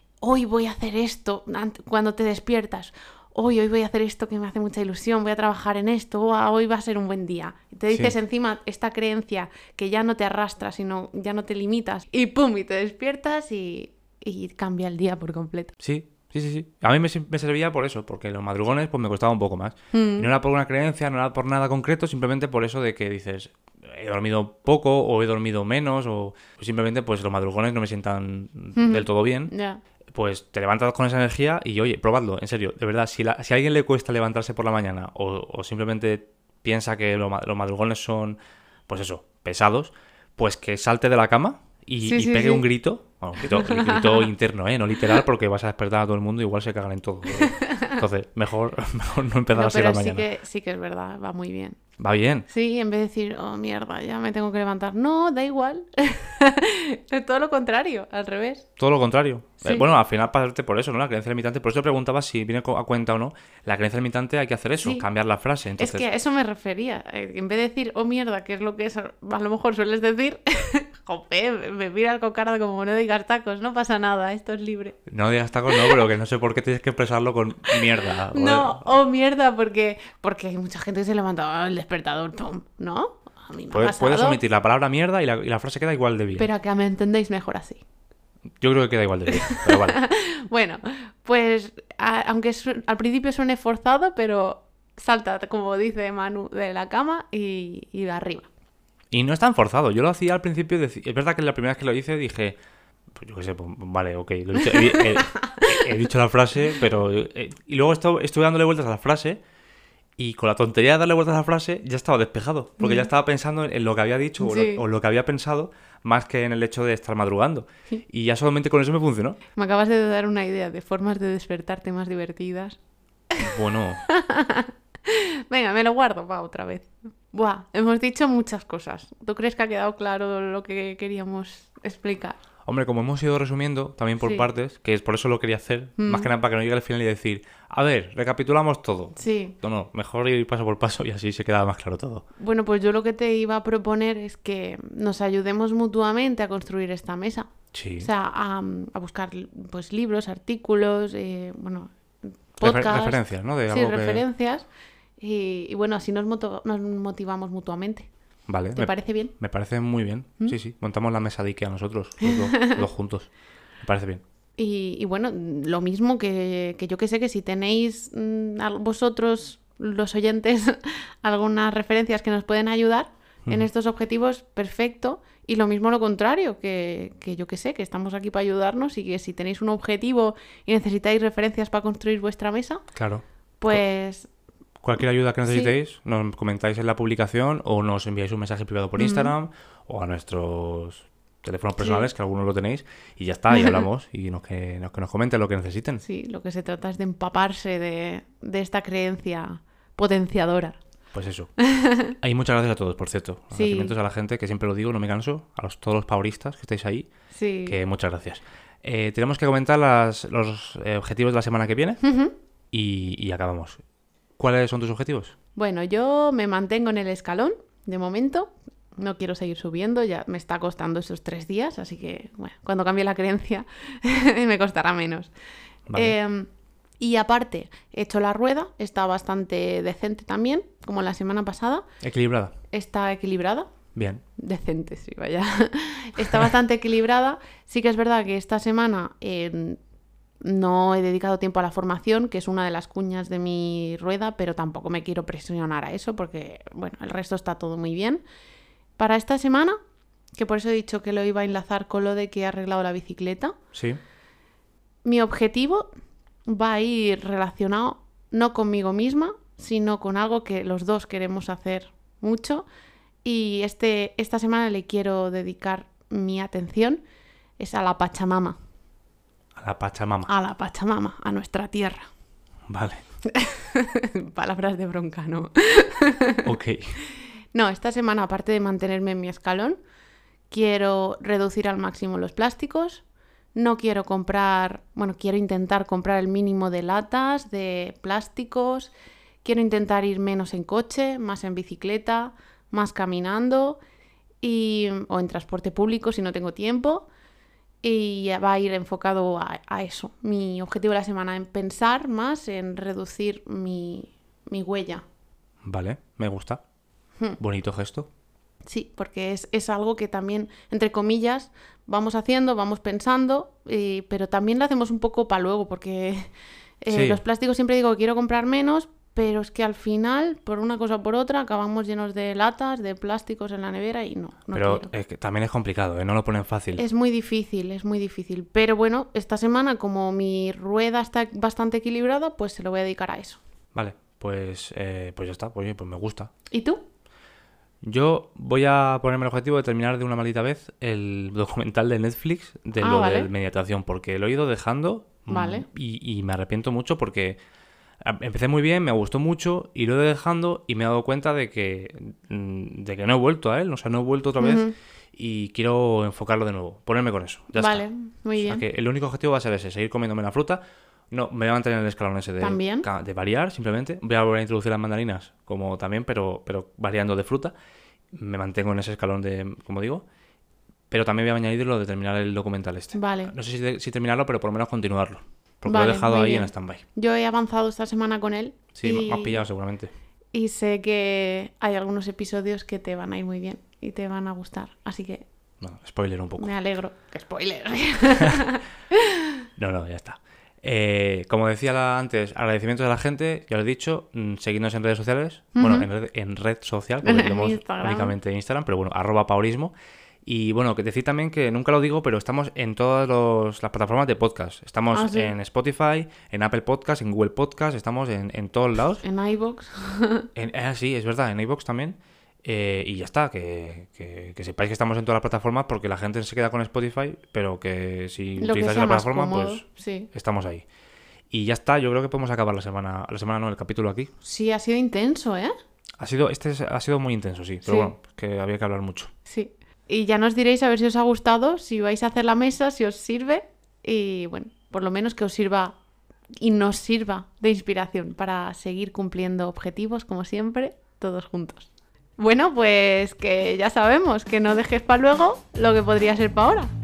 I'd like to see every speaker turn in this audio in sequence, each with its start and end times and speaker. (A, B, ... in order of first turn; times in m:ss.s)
0:00.2-0:15.7 A
0:15.8-0:29.5 B
0:19.9-0:20.3 A
0:28.7-0:29.8 A
0:30.1-0:38.4 B
0:38.9-0:50.2 B
0:42.0-0:42.6 A
0:43.4-0:44.3 A
0:47.3-0:48.0 A
0:49.5-0:51.8 A
0:52.0-0:52.5 B
0:52.5-0:58.7 A
0:58.8-1:06.0 B
0:59.6-0:59.9 A
1:05.8-1:15.0 A
1:15.1-1:18.8 B
1:15.7-1:16.0 A
1:17.7-1:24.4 A
1:23.7-1:26.5 B
1:26.3-1:27.8 A
1:28.6-1:30.0 B
1:29.3-1:38.5 A
1:39.1-1:42.6 B
1:43.1-1:49.4 B
1:44.6-1:45.9 A
1:50.2-1:59.4 B
1:52.8-1:53.1 A
1:54.4-1:54.8 A
1:59.5-2:02.8 A
2:03.3-2:12.4 A
2:03.4-2:04.0 B
2:12.6-2:22.2 B
2:14.2-2:14.5 A
2:16.0-2:16.3 A
2:19.2-2:19.6 A
2:22.4-2:31.9 A
2:27.7-2:28.1 B
2:32.6-2:34.6 A
2:32.6-2:34.2 B
2:35.2-2:38.1 A
2:38.5-2:43.3 B
2:38.8-2:39.3 A
2:42.2-2:42.8 A
2:43.8-2:44.2 B
2:44.6-3:02.8 A
3:02.9-3:03.8 B
3:03.6-3:04.3 A
3:04.8-3:16.0 B
3:05.5-3:05.7 A
3:09.0-3:09.3 A
3:11.8-3:12.1 A
3:13.5-3:13.8 A
3:16.0-3:20.8 A
3:21.1-3:21.5 B
3:21.6-3:22.1 A
3:22.1-3:27.1 B
3:23.5-3:23.9 A
3:27.3-3:27.8 A
3:27.7-3:32.0 B
3:32.0-3:32.3 A
3:32.7-3:33.8 B
3:34.4-3:35.3 B
3:35.6-3:45.3 A
3:45.9-3:46.2 B
3:45.9-3:46.5 A
3:47.0-3:51.8 A
3:52.0-3:52.5 B
3:52.7-3:53.7 A
3:53.9-3:54.2 B
3:54.4-3:59.8 A
4:00.4-4:08.2 A
4:09.0-4:09.8 A
4:10.3-4:13.6 A
4:13.7-4:14.0 B
4:15.0-4:15.9 A
4:16.5-4:22.6 A
4:23.2-4:27.0 A
4:27.6-4:28.6 A
4:29.6-4:30.3 B
4:30.3-4:32.0 A
4:32.7-4:33.0 B
4:33.2-4:36.5 A
4:36.4-4:37.0 B
4:37.5-4:39.8 A
4:40.5-4:43.0 A
4:43.5-4:48.9 A
4:49.4-4:53.8 A
4:54.4-4:57.1 A
4:57.8-5:05.0 A
5:05.6-5:06.6 B
5:07.4-5:08.1 B
5:08.7-5:16.3 A
5:16.8-5:24.9 A
5:16.9-5:17.2 B
5:24.5-5:26.8 B
5:26.8-5:33.4 A
5:33.7-5:36.3 B
5:36.5-5:36.8 A
5:37.8-5:47.4 B
5:42.8-5:43.3 A
5:45.3-5:45.6 A
5:48.0-6:07.5 B
5:54.4-5:54.7 A
5:57.6-5:58.6 A
6:02.4-6:02.9 A
6:08.1-6:10.0 B
6:10.9-6:16.8 B
6:12.9-6:13.3 A
6:15.7-6:19.4 A
6:18.8-6:19.9 B
6:20.3-6:25.2 A
6:25.6-6:26.5 B
6:26.4-6:29.4 A
6:29.6-6:39.7 B
6:35.6-6:35.9 A
6:37.0-6:38.1 A
6:40.2-6:49.0 B
6:44.9-6:45.3 A
6:49.0-6:50.3 A
6:50.3-7:00.6 B
6:58.4-7:00.1 A
7:01.3-7:04.1 B
7:04.2-7:05.5 A
7:06.0-7:09.1 B
7:07.6-7:07.9 A
7:09.3-7:15.7 A
7:16.4-7:26.7 A